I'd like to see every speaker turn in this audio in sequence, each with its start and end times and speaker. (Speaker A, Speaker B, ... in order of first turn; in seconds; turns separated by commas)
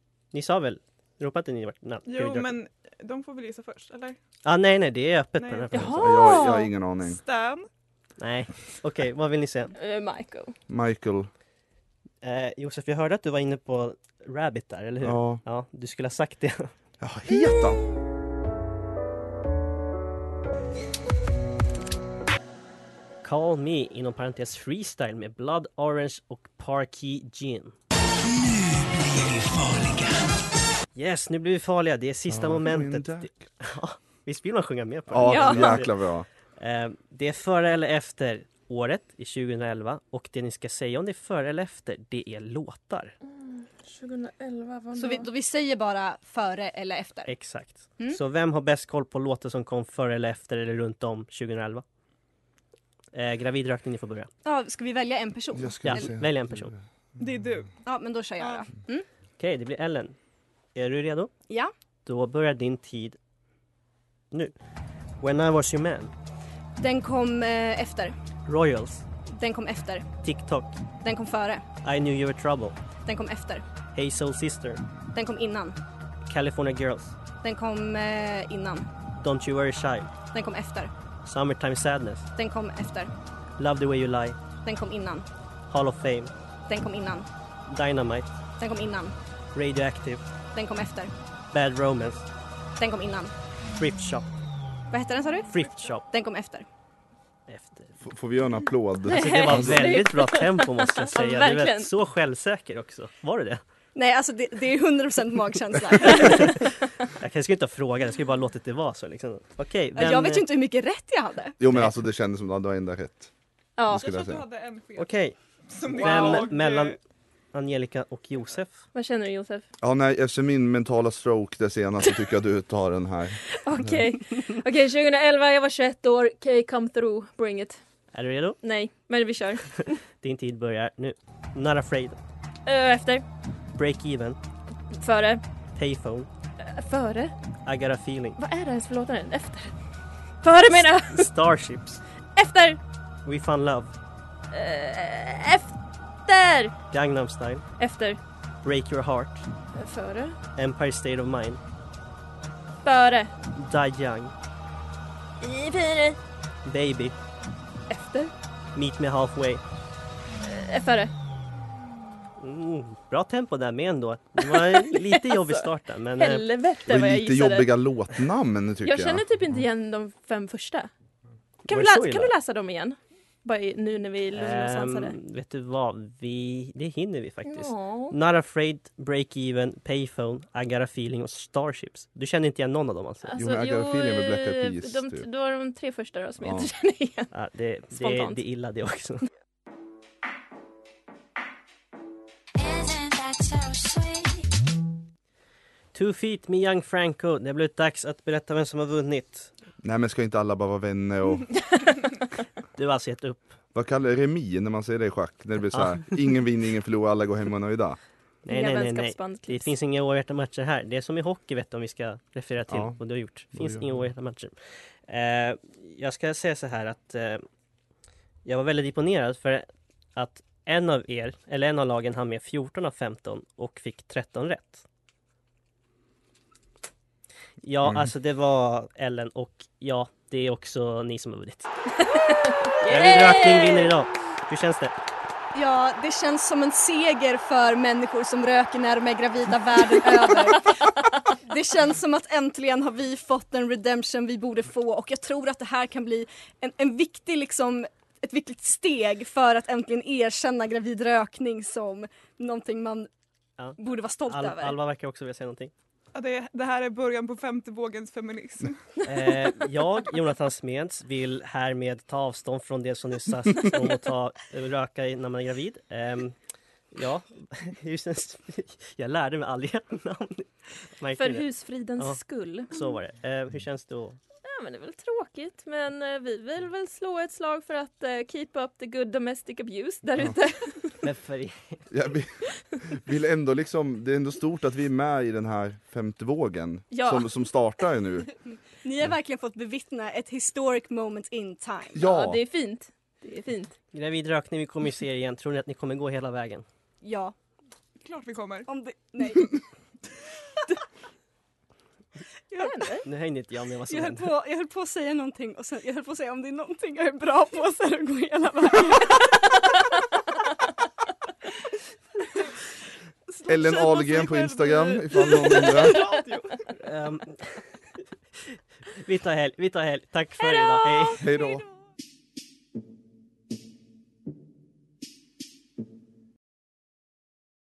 Speaker A: 0.3-2.5, Speaker B: 2.1-4.2, Speaker A: 4.5-6.0, Speaker B: 5.4-5.9, Speaker C: 5.7-6.7, Speaker D: 5.8-7.2, Speaker B: 7.0-7.7, Speaker A: 8.2-9.7, Speaker C: 9.8-10.6, Speaker D: 10.7-11.3, Speaker A: 12.2-16.7, Speaker D: 15.0-15.4, Speaker D: 17.0-17.8, Speaker A: 23.2-27.8, Speaker A: 30.9-35.9, Speaker D: 32.3-33.4, Speaker D: 35.1-36.3, Speaker C: 35.2-35.9, Speaker A: 36.6-43.1, Speaker C: 43.4-45.3, Speaker E: 45.0-47.3, Speaker A: 47.3-51.8, Speaker A: 53.1-54.3, Speaker E: 54.5-56.1, Speaker D: 55.5-56.8, Speaker A: 55.8-56.7, Speaker B: 57.2-57.8, Speaker E: 57.9-59.0, Speaker B: 58.4-58.7, Speaker A: 59.4-60.2, Speaker A: 60.8-61.3, Speaker A: 62.1-63.2, Speaker A: 65.2-66.1, Speaker E: 66.8-68.2, Speaker A: 68.5-69.0, Speaker E: 69.3-70.1, Speaker A: 70.2-70.8, Speaker E: 71.0-71.7, Speaker A: 71.8-72.8, Speaker E: 73.1-73.7, Speaker A: 73.9-74.8, Speaker E: 75.1-75.8, Speaker A: 76.3-77.2, Speaker E: 77.4-78.9, Speaker A: 79.2-80.1, Speaker E: 80.3-80.9, Speaker A: 81.2-82.3, Speaker E: 82.4-83.1, Speaker A: 83.6-84.4, Speaker E: 84.6-85.3, Speaker A: 85.7-86.3, Speaker E: 86.7-87.3, Speaker A: 87.7-88.3, Speaker E: 88.6-89.2, Speaker A: 89.5-90.2, Speaker E: 90.5-91.1, Speaker A: 91.5-92.3, Speaker E: 92.8-93.3, Speaker A: 93.8-94.3, Speaker E: 94.9-96.7, Speaker A: 95.5-96.0, Speaker A: 97.5-98.0, Speaker D: 98.0-100.0, Speaker C: 99.0-101.9, Speaker A: 99.1-103.6, Speaker E: 104.0-106.7, Speaker A: 106.0-110.5, Speaker E: 110.0-111.6, Speaker D: 111.6-113.3, Speaker C: 113.8-114.1, Speaker D: 113.9-114.4, Speaker B: 113.9-115.2, Speaker A: 115.0-115.4, Speaker B: 115.7-117.0, Speaker A: 115.9-117.0, Speaker A: 117.5-118.8, Speaker C: 118.9-119.7, Speaker D: 119.8-124.0, Speaker C: 123.6-127.8, Speaker A: 128.1-128.6, Speaker C: 128.6-130.0, Speaker A: 130.2-132.2, Speaker C: 132.7-133.2, Speaker A: 133.8-134.4, Speaker C: 134.9-135.4, Speaker A: 135.8-136.3, Speaker C: 136.6-137.3, Speaker A: 137.7-138.4, Speaker C: 138.4-139.7, Speaker C: 140.4-141.3, Speaker A: 140.7-142.0, Speaker C: 142.4-142.8, Speaker A: 143.3-143.9, Speaker C: 144.5-146.7, Speaker A: 146.9-147.7, Speaker C: 147.8-148.2, Speaker A: 148.6-149.5, Speaker C: 149.7-150.4, Speaker A: 150.6-151.6, Speaker C: 152.8-153.3, Speaker A: 153.5-154.3, Speaker C: 155.4-156.2, Speaker A: 156.7-157.2, Speaker C: 157.9-158.3, Speaker A: 158.8-159.6, Speaker C: 160.4-161.1, Speaker A: 162.4-166.4, Speaker C: 164.4-167.7, Speaker D: 166.9-169.2, Speaker C: 168.8-170.9, Speaker A: 171.7-172.3, Speaker C: 171.7-175.2, Speaker A: 174.3-183.3, Speaker C: 177.5-178.2, Speaker C: 183.3-187.3, Speaker D: 183.4-185.3, Speaker D: 186.4-186.7, Speaker A: 187.3-189.2, Speaker C: 187.9-188.4, Speaker C: 192.8-194.2, Speaker A: 195.9-199.5, Speaker D: 199.8-201.6, Speaker A: 202.8-203.5, Speaker D: 203.7-208.0, Speaker A: 205.7-206.2, Speaker A: 208.4-214.5, Speaker C: 208.5-209.7, Speaker D: 212.7-213.0, Speaker D: 213.5-214.1, Speaker A: 215.1-217.4, Speaker A: 218.4-224.8, Speaker A: 227.6-231.7, Speaker C: 232.1-233.9, Speaker A: 232.9-234.9, Speaker E: 235.5-253.1, Speaker A: 253.6-255.7, Speaker E: 253.8-254.8, Speaker B: 256.1-258.8, Speaker A: 259.0-266.4, Speaker A: 266.9-271.5, Speaker C: 271.2-272.8, Speaker A: 272.7-274.2, Speaker C: 274.4-280.9, Speaker A: 281.0-281.8, Speaker D: 281.9-288.3, Speaker C: 286.9-287.2, Speaker E: 288.8-292.0, Speaker D: 291.9-292.4, Speaker C: 292.0-293.8, Speaker A: 293.9-296.6, Speaker E: 297.0-297.3, Speaker B: 298.0-298.7, Speaker E: 298.7-299.6, Speaker E: 302.5-303.0, Speaker C: 302.6-303.0, Speaker A: 303.1-304.3, Speaker E: 303.9-309.6, Speaker B: 313.4-316.6, Speaker D: 313.5-316.0, Speaker A: 316.8-317.5, Speaker A: 319.0-321.2, Speaker D: 321.2-321.6